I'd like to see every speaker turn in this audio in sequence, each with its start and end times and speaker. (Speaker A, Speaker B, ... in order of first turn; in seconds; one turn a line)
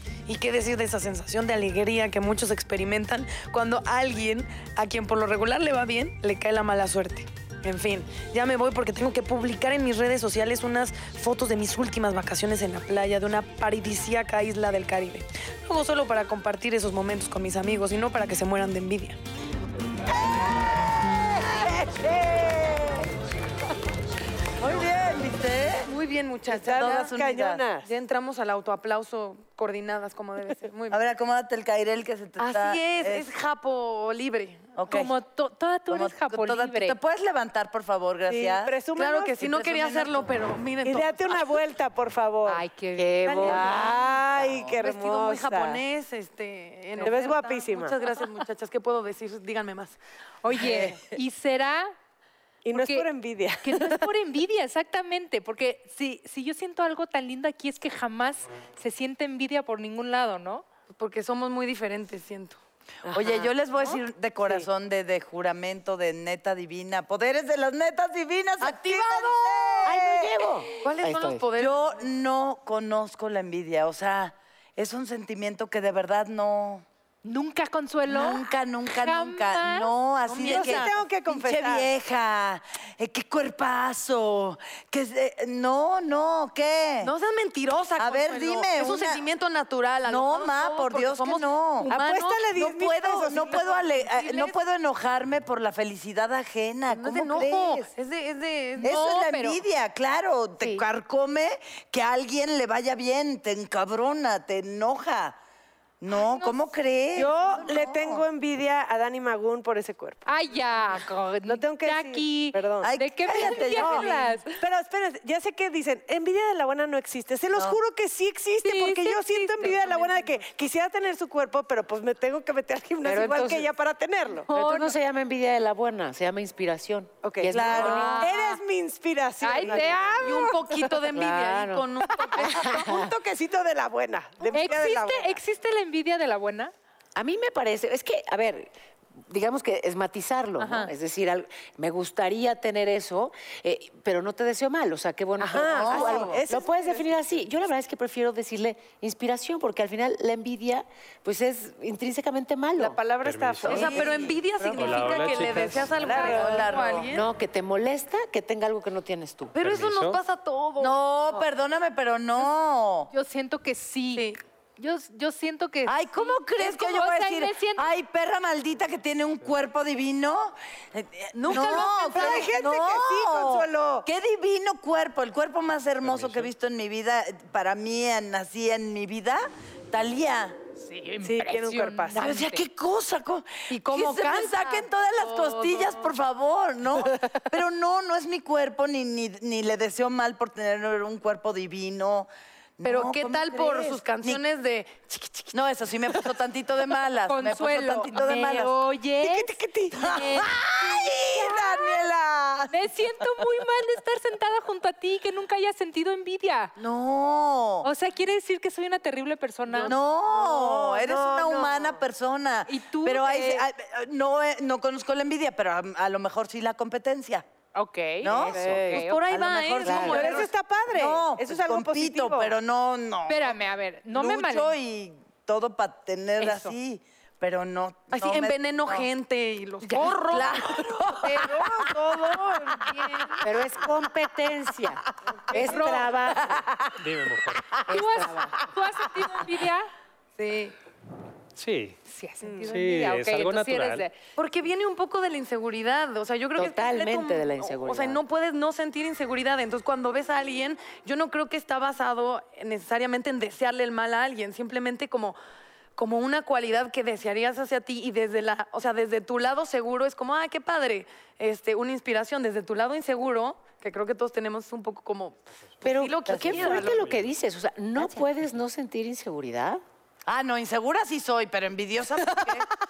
Speaker A: 0.3-19.2
Speaker B: 21.9-23.0
Speaker C: 24.6-25.9
Speaker A: 25.9-27.1
Speaker B: 26.5-27.9
Speaker C: 26.5-27.6
Speaker A: 27.8-31.0
Speaker C: 30.9-33.3
Speaker A: 32.4-34.7
Speaker C: 34.8-35.1
Speaker D: 34.9-37.0
Speaker C: 35.9-38.7
Speaker B: 38.3-40.3
Speaker A: 39.0-41.4
Speaker B: 40.8-42.7
Speaker D: 42.5-43.6
Speaker E: 43.0-43.8
Speaker B: 43.2-45.8
Speaker C: 43.5-44.7
Speaker A: 44.8-50.0
Speaker B: 47.0-48.1
Speaker D: 50.4-51.9
Speaker A: 50.6-50.9
Speaker B: 52.6-54.0
Speaker D: 52.7-53.1
Speaker D: 53.6-60.6
Speaker A: 60.9-62.6
Speaker B: 63.0-63.5
Speaker C: 63.1-70.3
Speaker A: 68.6-70.1
Speaker E: 69.8-71.5
Speaker A: 70.7-71.8
Speaker C: 71.5-76.8
Speaker D: 77.2-79.9
Speaker C: 78.1-87.1
Speaker A: 80.3-80.9
Speaker B: 80.4-81.9
Speaker A: 87.0-92.6
Speaker C: 88.0-89.2
Speaker C: 90.0-91.9
Speaker B: 91.9-93.7
Speaker C: 92.6-97.9
Speaker A: 93.2-94.6
Speaker A: 96.9-99.1
Speaker C: 98.8-105.4
Speaker D: 98.8-99.6
Speaker C: 106.0-108.2
Speaker B: 107.2-110.2
Speaker D: 110.3-114.5
Speaker B: 111.4-124.5
Speaker C: 112.8-114.2
Speaker D: 118.6-120.4
Speaker E: 123.0-123.7
Speaker E: 124.5-128.2
Speaker B: 127.2-130.4
Speaker C: 127.6-128.3
Speaker D: 127.6-128.6
Speaker A: 127.7-128.2
Speaker D: 129.4-130.9
Speaker A: 129.7-132.9
Speaker E: 131.1-131.9
Speaker B: 132.4-135.4
Speaker E: 132.5-133.1
Speaker D: 134.5-136.7
Speaker E: 137.2-138.7
Speaker E: 139.3-153.0
Speaker D: 140.6-140.9
Speaker B: 145.4-147.3
Speaker C: 145.7-146.3
Speaker A: 146.0-146.4
Speaker B: 152.8-154.7
Speaker F: 153.2-153.8
Speaker C: 153.6-154.4
Speaker A: 153.7-157.2
Speaker F: 154.8-156.0
Speaker B: 155.9-156.8
Speaker C: 156.3-157.1
Speaker E: 157.1-159.6
Speaker A: 159.5-161.0
Speaker F: 159.6-160.2
Speaker C: 160.8-163.1
Speaker D: 163.1-167.9
Speaker A: 164.1-164.4
Speaker C: 165.9-180.6
Speaker B: 171.4-174.1
Speaker A: 171.5-172.4
Speaker D: 171.8-172.4
Speaker F: 176.1-176.5
Speaker D: 180.8-182.6
Speaker B: 181.2-182.2
Speaker C: 182.1-194.4
Speaker A: 183.7-186.1
Speaker A: 192.8-195.6
Speaker C: 195.5-198.7
Speaker D: 197.3-201.1
Speaker B: 199.2-200.0
Speaker C: 199.9-202.9
Speaker D: 202.7-206.7
Speaker C: 206.8-207.9
Speaker D: 207.8-209.9
Speaker B: 209.7-212.0
Speaker C: 209.9-217.4
Speaker D: 212.7-213.7
Speaker D: 217.8-219.2
Speaker C: 218.2-229.1
Speaker B: 218.6-219.0
Speaker A: 218.9-220.5
Speaker B: 219.8-222.6
Speaker D: 223.3-224.8
Speaker D: 226.4-226.8
Speaker A: 228.1-230.9
Speaker D: 229.8-230.4
Speaker C: 230.2-231.8
Speaker B: 231.3-233.2
Speaker E: 233.4-236.6
Speaker D: 235.5-236.3
Speaker B: 235.8-236.1
Speaker F: 237.0-238.1
Speaker E: 237.9-238.6
Speaker D: 237.9-239.9
Speaker A: 240.4-240.7
Speaker F: 241.6-242.0
Speaker D: 242.1-244.2
Speaker B: 242.4-242.7
Speaker F: 242.7-244.1
Speaker A: 244.4-255.4
Speaker E: 246.6-248.2
Speaker A: 256.0-267.1
Speaker E: 265.8-269.8
Speaker C: 266.3-266.8
Speaker B: 266.6-266.8
Speaker F: 266.8-267.3
Speaker C: 270.3-272.7